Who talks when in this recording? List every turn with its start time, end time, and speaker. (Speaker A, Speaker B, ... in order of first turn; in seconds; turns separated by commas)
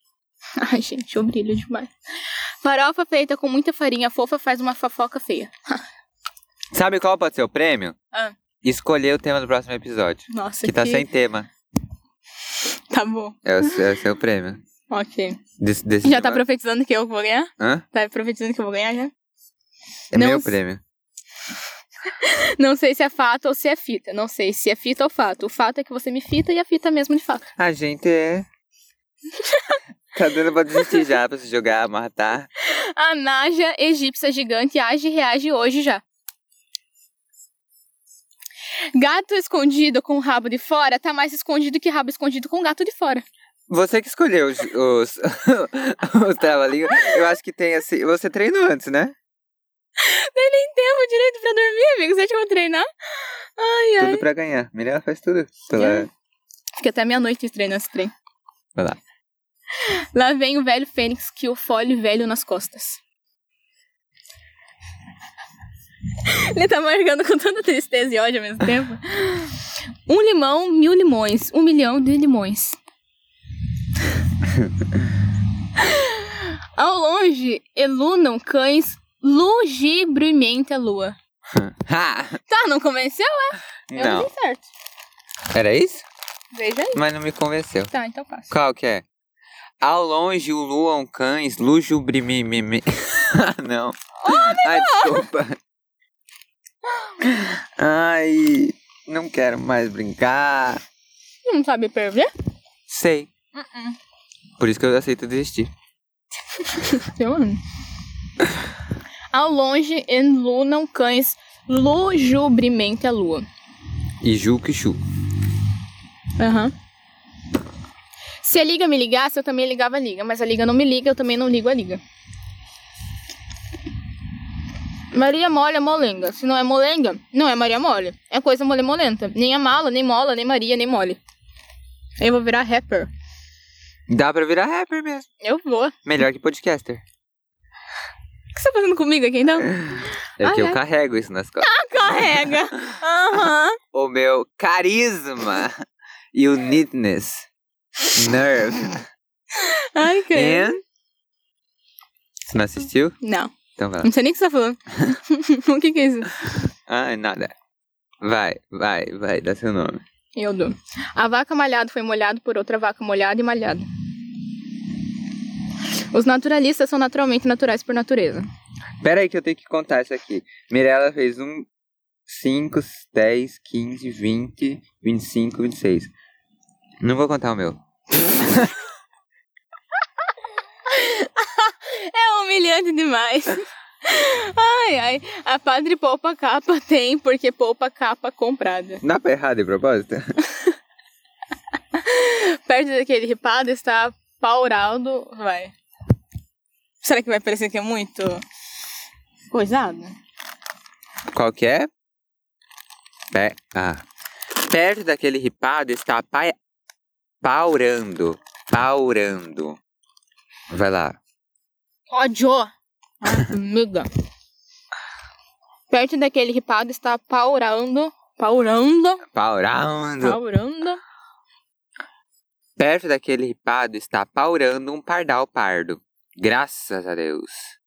Speaker A: 0.6-5.8, Speaker B: 6.7-8.0, Speaker B: 8.6-11.5, Speaker A: 10.3-11.1, Speaker A: 12.6-13.8, Speaker B: 13.4-14.6, Speaker A: 14.9-15.4, Speaker B: 15.6-16.4, Speaker A: 16.0-19.1, Speaker B: 20.1-20.8, Speaker A: 20.1-20.6, Speaker A: 22.1-27.5, Speaker B: 27.6-28.5, Speaker A: 29.3-29.8, Speaker B: 30.1-32.5, Speaker A: 30.8-31.0, Speaker A: 32.6-36.0, Speaker A: 38.9-43.2, Speaker B: 43.7-49.1, Speaker A: 50.0-54.3, Speaker B: 54.0-56.1, Speaker A: 55.8-56.1, Speaker A: 56.8-58.1, Speaker B: 58.8-59.0, Speaker A: 59.8-63.0, Speaker A: 66.2-72.8, Speaker A: 75.8-81.2, Speaker B: 81.5-82.4, Speaker A: 82.5-84.7, Speaker B: 83.9-84.3, Speaker B: 85.5-86.0, Speaker A: 86.5-87.0, Speaker B: 87.0-87.9, Speaker A: 87.9-88.5, Speaker B: 88.5-89.0, Speaker B: 89.8-95.6, Speaker A: 94.2-95.3, Speaker B: 97.2-100.8, Speaker A: 101.5-102.3, Speaker B: 102.9-103.3, Speaker A: 103.5-104.0, Speaker B: 104.6-105.7, Speaker A: 106.6-107.6, Speaker A: 109.3-113.5, Speaker B: 114.2-115.0, Speaker A: 116.4-116.7, Speaker A: 118.4-122.0, Speaker A: 125.1-131.2, Speaker A: 132.2-133.1, Speaker B: 134.1-135.3, Speaker A: 135.4-135.9, Speaker B: 136.1-137.0, Speaker A: 138.5-139.8, Speaker B: 139.7-141.7, Speaker A: 140.4-140.8, Speaker A: 141.6-143.8, Speaker B: 143.9-147.5, Speaker B: 148.1-149.1, Speaker A: 149.5-150.7, Speaker B: 150.3-150.8, Speaker B: 152.5-153.2, Speaker A: 153.2-156.4, Speaker B: 153.8-154.1, Speaker B: 156.9-157.5, Speaker B: 158.2-160.0, Speaker A: 160.4-163.8, Speaker A: 166.1-168.5, Speaker B: 169.0-171.7, Speaker B: 172.3-176.1, Speaker B: 177.0-178.8, Speaker A: 180.9-189.0, Speaker B: 189.0-190.4, Speaker A: 191.9-195.7, Speaker A: 197.0-198.4, Speaker A: 199.5-200.2, Speaker B: 201.3-201.9, Speaker B: 203.3-204.1, Speaker B: 204.6-206.6, Speaker B: 207.4-209.8, Speaker B: 210.7-211.2, Speaker A: 212.1-214.1, Speaker A: 215.9-219.2, Speaker B: 219.3-220.4, Speaker A: 220.2-221.0, Speaker B: 222.8-227.7